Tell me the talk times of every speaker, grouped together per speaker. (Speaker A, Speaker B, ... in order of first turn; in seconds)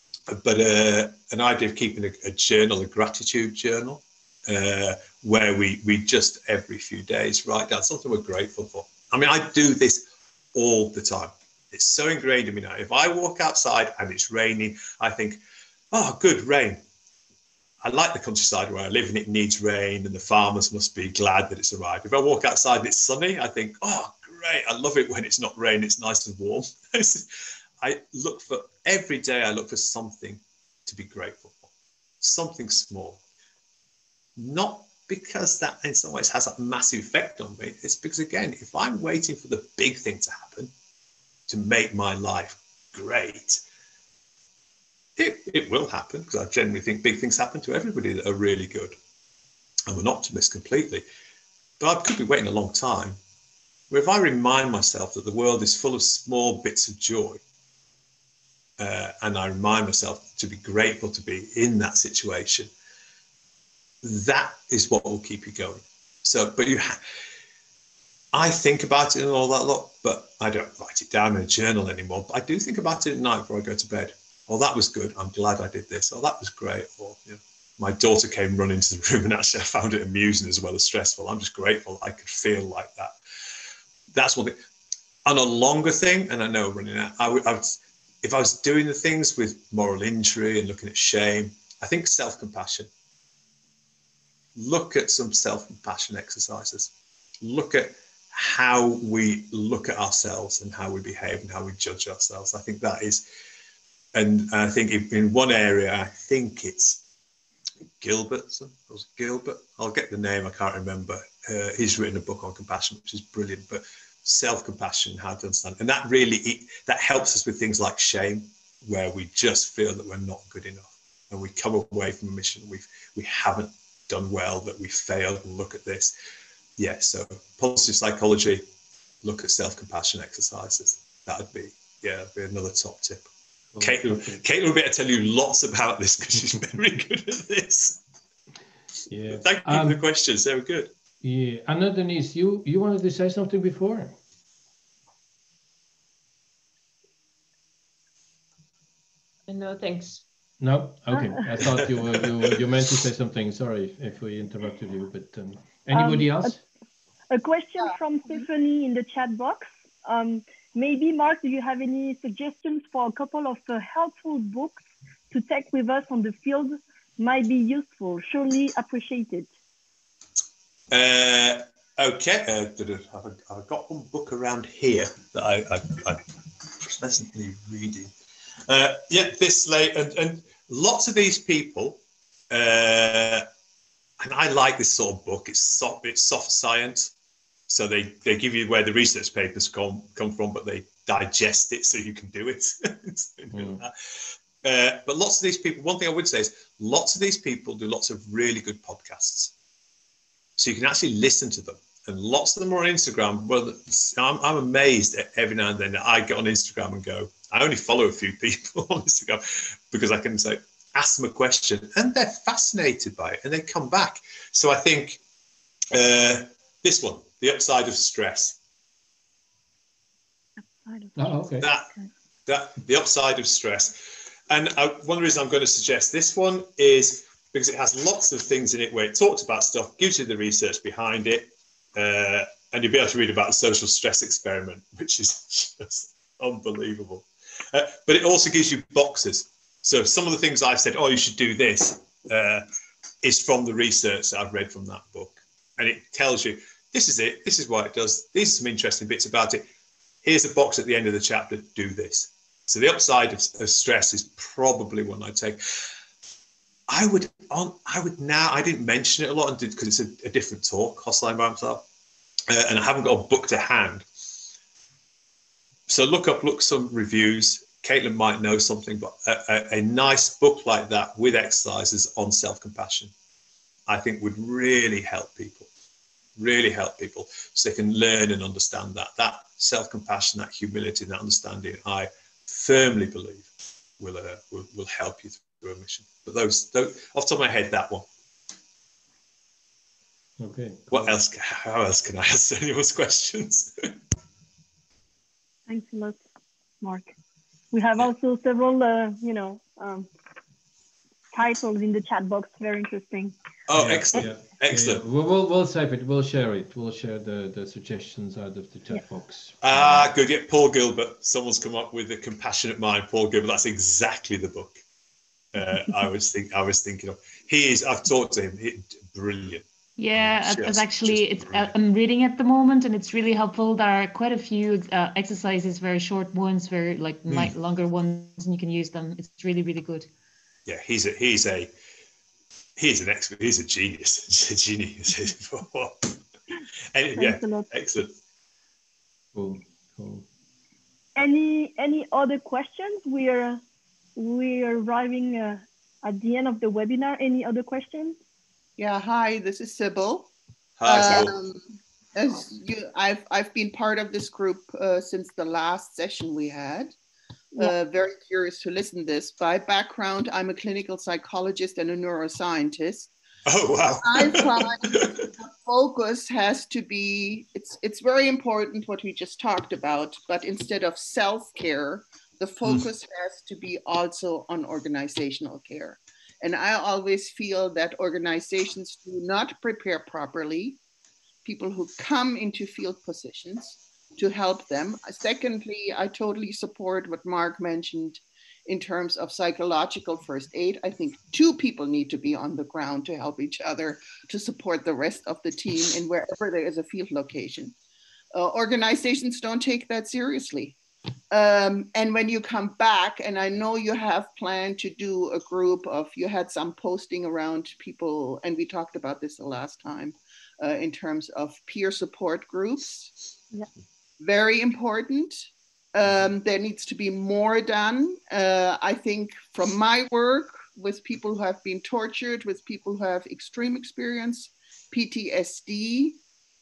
Speaker A: 0.3-15.4, 15.9-16.8, 17.8-27.3, 27.8-31.7, 32.2-33.2, 34.4-40.7, 41.5-43.6, 45.2-49.0, 49.9-51.0, 51.8-53.2, 53.9-57.4, 58.8-62.7, 64.0-67.0, 68.3-83.1, 84.1-84.6, 85.2-92.9, 94.5-96.9, 97.4-103.2, 104.1-107.0, 108.0-126.1, 126.8-128.6, 129.2-133.2, 133.8-138.0, 139.3-140.9, 170.9-178.1, 178.7-183.4, 184.2-187.1, 187.7-199.5, 200.6-215.2, 215.9-218.6, 221.6-221.9, 222.5-242.6, 243.2-249.6, 250.2-255.6, 256.9-261.8, 262.5-264.1, 265.9-273.1, 273.9-275.7, 276.4-288.1, 290.9-293.7, 303.7-305.0, 309.6-314.8, 315.5-319.6, 320.1-321.7, 327.3-327.5, 330.7-331.7, 332.8-336.2, 336.9-338.1, 350.8-351.3, 363.4-365.1
Speaker B: 133.7-134.4, 139.1-140.0, 141.2-144.2, 150.6-156.6, 193.5-193.8, 221.2-221.7, 290.4-291.1, 303.7-310.1, 339.3-340.2
Speaker C: 149.5-150.2, 320.0-330.1
Speaker D: 155.9-156.6, 157.3-169.5, 220.7-221.4, 295.7-296.1, 296.8-297.1, 297.7-300.1, 301.3-303.3, 337.1-337.7, 341.1-343.6, 344.1-348.2
Speaker E: 348.8-350.3, 350.9-351.6, 352.1-356.9, 357.6-363.1, 364.0-380.8, 381.4-397.7, 398.3-400.8, 401.3-413.1, 414.2-426.2